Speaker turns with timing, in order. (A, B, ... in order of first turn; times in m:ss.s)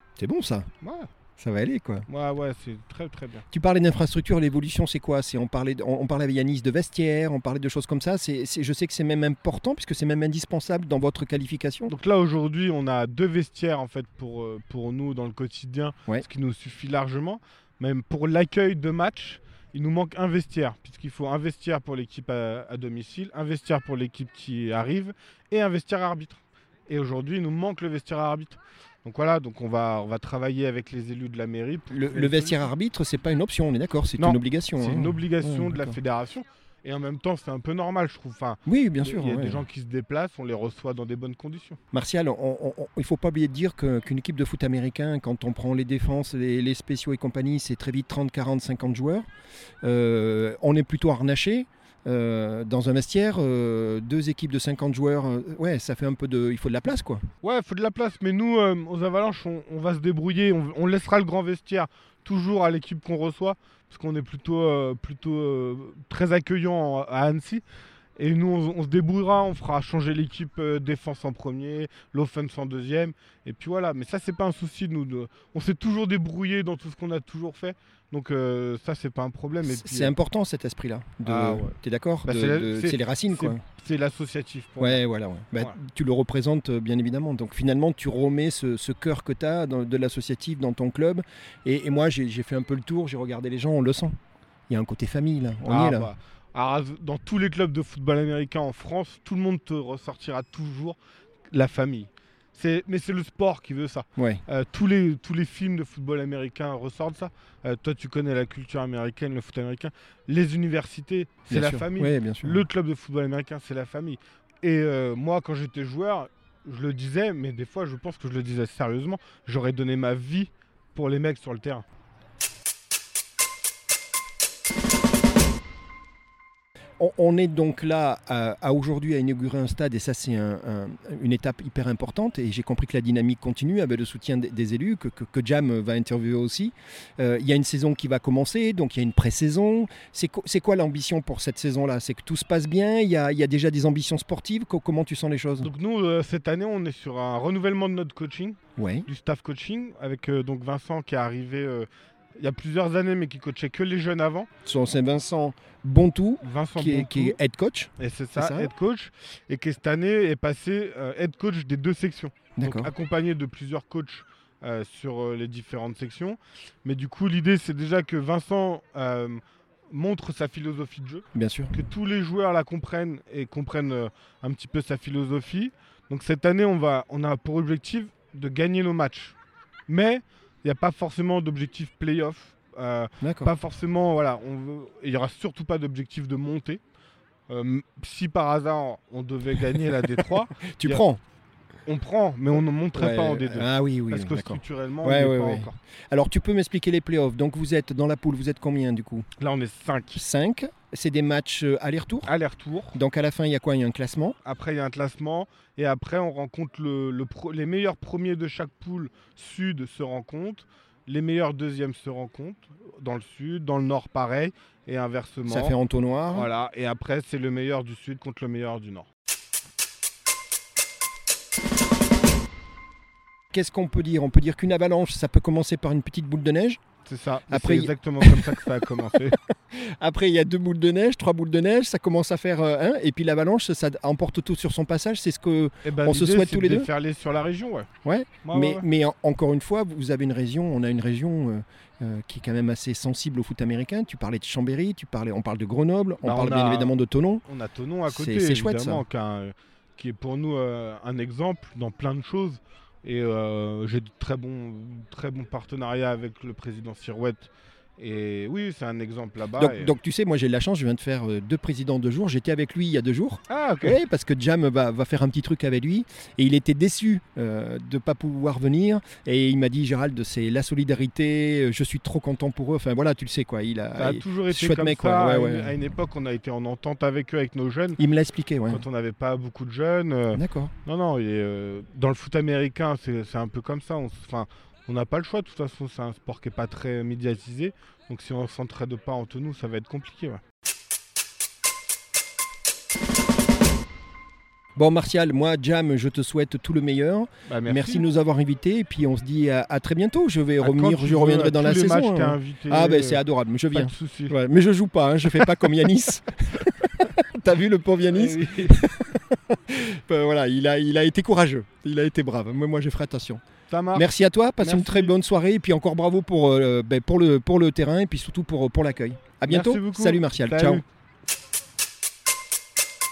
0:00.2-0:00.7 A
0:00.8-0:01.1 B
0:01.4-0:02.1 A
0:02.1-0:03.4 B
0:03.5-0:11.9 A
0:11.9-0:32.7 B
0:31.9-0:36.0 A
0:34.2-0:41.8 B
0:38.7-0:39.6 A
0:41.9-0:49.2 A
0:49.8-0:57.2 A
0:57.4-1:07.6 B
1:08.2-1:20.1 B
1:19.6-1:23.6 A
1:21.2-1:25.0 B
1:24.8-1:34.2 A
1:34.7-1:36.1 A
1:35.6-1:41.0 B
1:41.5-2:01.8 B
1:44.2-1:44.4 A
1:51.5-1:52.7 A
2:07.0-2:25.7 A
2:25.6-2:34.5 B
2:28.8-2:29.1 A
2:34.6-2:38.7 A
2:36.4-2:37.4 B
2:38.0-2:59.4 B
2:42.6-2:42.9 A
2:51.4-2:51.8 A
2:59.9-3:06.8 B
3:03.2-3:03.5 A
3:07.5-3:11.0 B
3:10.0-3:11.2 A
3:11.9-3:15.8 B
3:12.9-3:19.3 A
3:19.4-3:20.2 B
3:20.1-3:22.3 A
3:22.2-3:23.0 B
3:22.9-3:24.4 A
3:24.4-3:35.8 B
3:35.5-3:36.5 A
3:36.3-3:39.1 B
3:43.5-3:46.8 A
3:47.0-3:49.4 B
3:47.5-3:48.8 A
3:49.7-3:56.9 A
3:55.8-3:57.9 B
3:58.0-4:07.4 A
3:58.4-3:58.8 B
4:06.2-4:07.0 B
4:07.5-4:19.9 B
4:08.1-4:09.0 A
4:19.5-4:35.8 A
4:23.5-4:24.0 B
4:34.0-4:38.0 B
4:38.0-4:38.8 A
4:38.7-4:50.4 B
4:40.3-4:40.7 A
4:54.8-5:13.4 A
4:57.5-4:58.1 B
5:00.6-5:04.4 B
5:08.1-5:08.8 B
5:13.7-5:15.2 B
5:14.0-5:20.8 A
5:19.5-5:20.8 B